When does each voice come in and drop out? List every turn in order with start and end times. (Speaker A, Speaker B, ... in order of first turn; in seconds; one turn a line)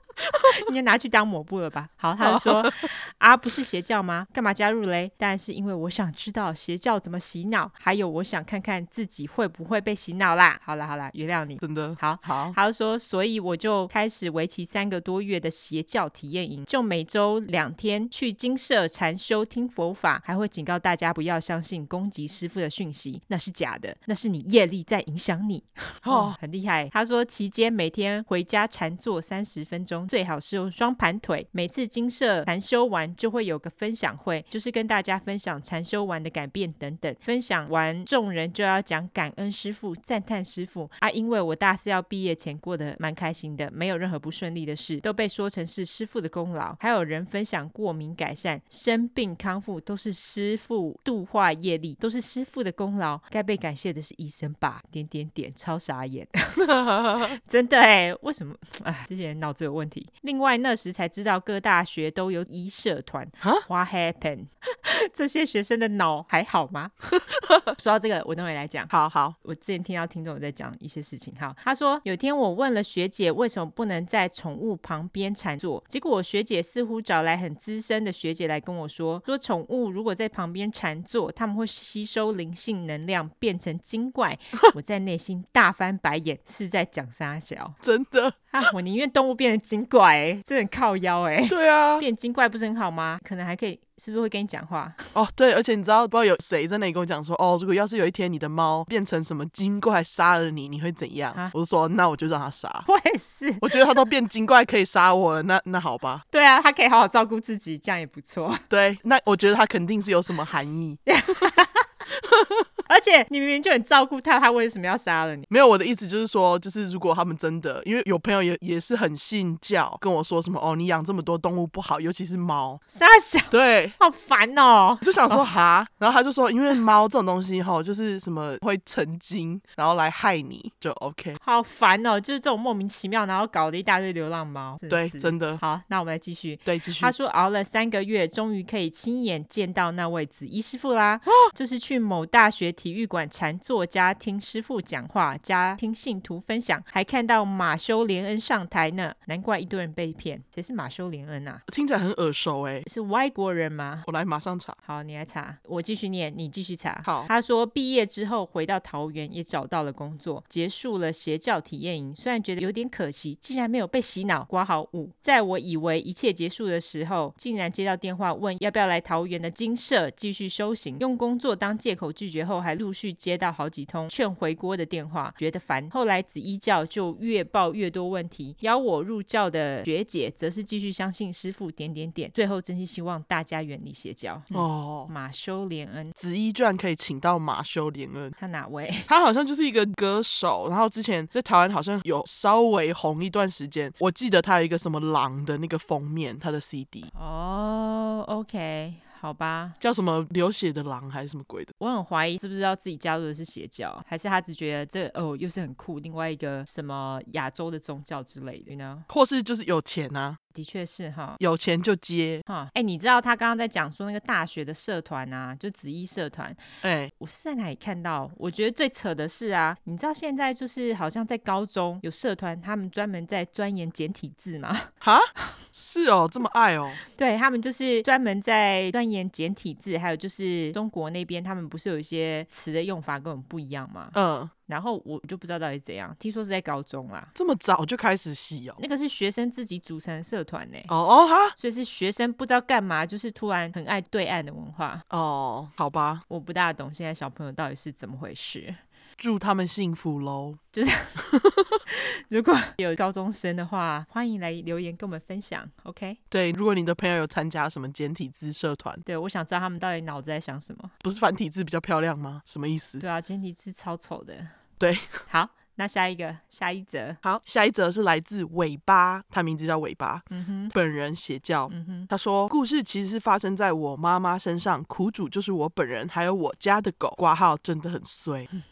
Speaker A: 0.4-56.3
Speaker B: 2.2-2.9
Speaker B: 11.6-12.6
Speaker B: 26.0-26.4
Speaker B: 56.6-57.4
Speaker A: 57.2-66.9
Speaker B: 67.3-67.7
Speaker A: 67.8-87.8
Speaker B: 68.9-69.4
Speaker B: 87.8-88.7
Speaker A: 88.5-95.0
Speaker B: 91.5-92.1
Speaker B: 95.1-102.9
Speaker A: 102.9-103.8
Speaker B: 103.6-106.2
Speaker A: 106.3-108.6
Speaker B: 108.7-111.0
Speaker A: 111.1-111.9
Speaker B: 112.3-112.7
Speaker A: 112.9-115.5
Speaker B: 115.5-122.8
Speaker A: 122.9-125.5
Speaker B: 123.5-124.0
Speaker B: 125.0-131.4
Speaker A: 131.4-151.7
Speaker B: 134.9-135.6
Speaker B: 136.7-137.1
Speaker B: 151.7-152.9
Speaker A: 152.8-154.1
Speaker B: 154.1-154.8
Speaker A: 154.8-186.2
Speaker B: 157.0-157.3
Speaker B: 184.5-185.1
Speaker B: 186.2-188.4
Speaker A: 188.4-189.1
Speaker B: 189.1-197.1
Speaker A: 197.1-199.8
Speaker B: 199.8-201.7
Speaker A: 201.8-209.1
Speaker B: 209.1-210.4
Speaker A: 210.5-211.4
Speaker B: 211.4-212.4
Speaker A: 212.5-216.6
Speaker B: 216.8-217.1
Speaker A: 217.1-224.9
Speaker B: 225.0-227.0
Speaker A: 227.1-234.2
Speaker B: 234.1-234.5
Speaker A: 234.7-237.3
Speaker B: 237.3-238.8
Speaker A: 238.8-240.9
Speaker B: 240.9-241.6
Speaker A: 241.6-245.0
Speaker B: 245.1-246.2
Speaker A: 246.3-248.8
Speaker B: 249.2-250.6
Speaker A: 250.7-251.2
Speaker B: 251.2-251.8
Speaker A: 251.9-256.2
Speaker B: 256.3-259.0
Speaker A: 259.1-260.9
Speaker B: 261.0-263.0
Speaker A: 263.0-264.5
Speaker B: 264.8-265.2
Speaker A: 265.3-267.2
Speaker B: 267.2-278.5
Speaker A: 270.3-270.7
Speaker A: 271.7-272.1